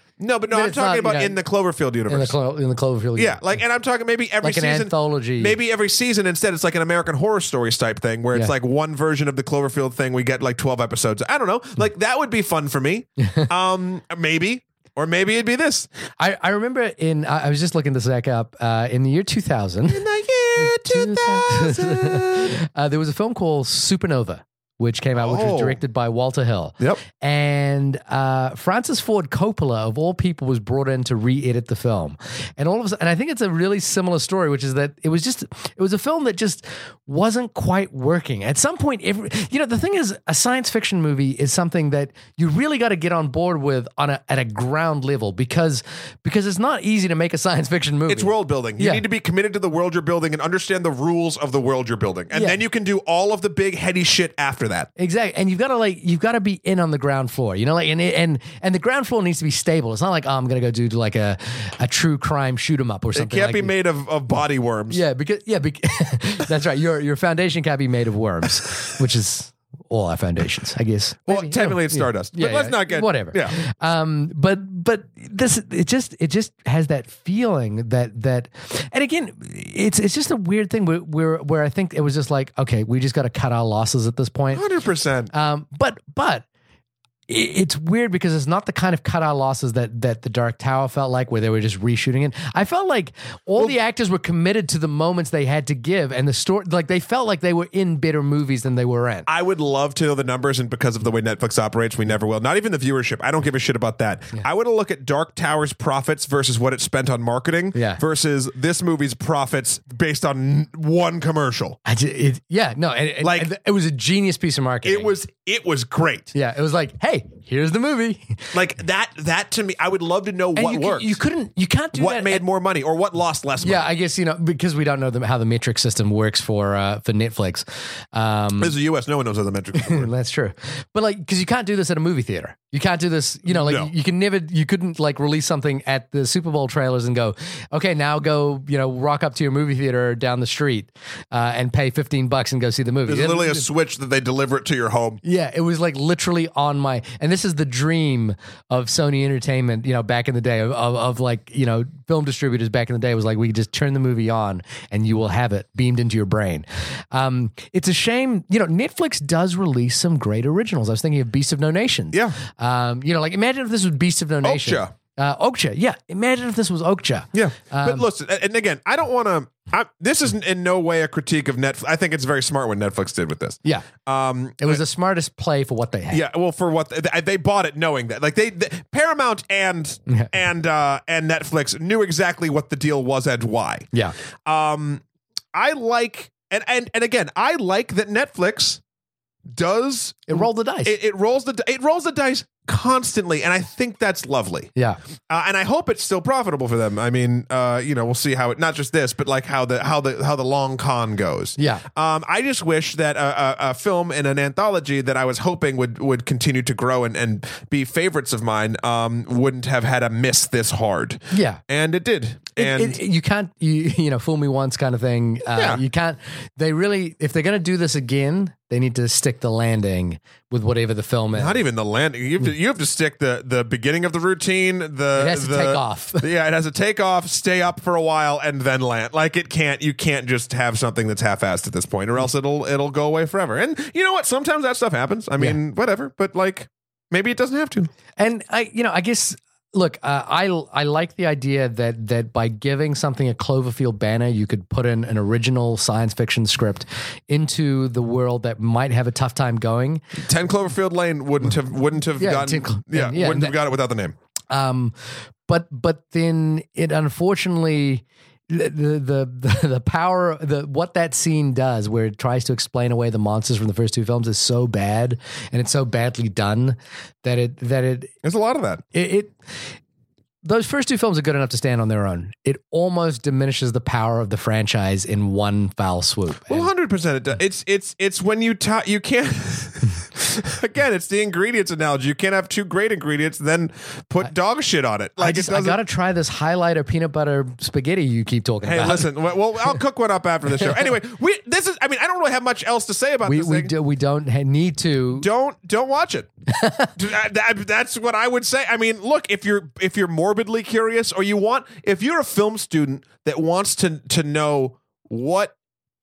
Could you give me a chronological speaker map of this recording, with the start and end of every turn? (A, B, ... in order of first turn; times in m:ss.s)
0:00.2-0:02.4 A
0:00.5-0:01.4 B
0:02.1-0:03.4 B
0:03.2-0:15.9 A
0:04.4-0:05.6 B
0:13.2-0:13.5 B
0:16.2-0:20.1 B
0:19.9-0:22.6 A
0:20.6-0:49.0 B
0:25.2-0:25.8 A
0:48.1-0:54.9 A
0:52.3-0:52.6 B
0:55.0-1:03.7 B
1:03.1-1:05.0 A
1:04.9-1:24.6 B
1:11.3-1:13.6 A
1:24.5-1:25.3 A
1:25.3-1:26.5 B
1:27.3-1:39.3 B
1:39.3-1:51.8 A
1:47.8-1:48.0 B
1:51.9-1:55.1 B
1:53.2-1:53.5 A
1:54.8-1:56.3 A
1:56.3-1:58.5 B
1:58.5-2:01.2 A
2:00.6-2:02.4 B
2:02.0-2:03.8 A
2:03.6-2:08.8 B
2:08.6-2:10.1 A
2:09.7-2:23.7 B
2:13.5-2:13.9 A
2:23.1-2:25.2 A
2:25.2-2:48.1 B
2:42.1-2:42.4 A
2:44.4-2:44.9 A
2:47.3-2:54.8 A
2:54.6-2:56.2 B
2:56.1-3:03.9 A
3:04.4-3:05.0 A
3:05.5-3:08.8 A
3:09.5-3:14.7 A
3:10.3-3:11.0 B
3:15.3-3:33.0 A
3:21.6-3:21.8 B
3:31.3-3:31.6 B
3:32.6-3:41.6 B
3:35.6-3:35.8 A
3:41.4-3:57.9 A
3:45.2-3:46.3 B
3:58.2-4:10.0 B
4:10.2-4:14.2 A
4:12.2-4:13.6 B
4:14.5-4:28.1 B
4:28.2-4:28.8 A
4:28.9-4:29.4 B
4:30.4-4:36.7 B
4:36.5-4:45.8 A
4:45.2-4:49.1 B
4:48.6-4:53.7 A
4:53.2-4:55.3 B
4:55.2-4:56.3 A
4:56.5-4:56.9 B
4:57.0-5:05.6 A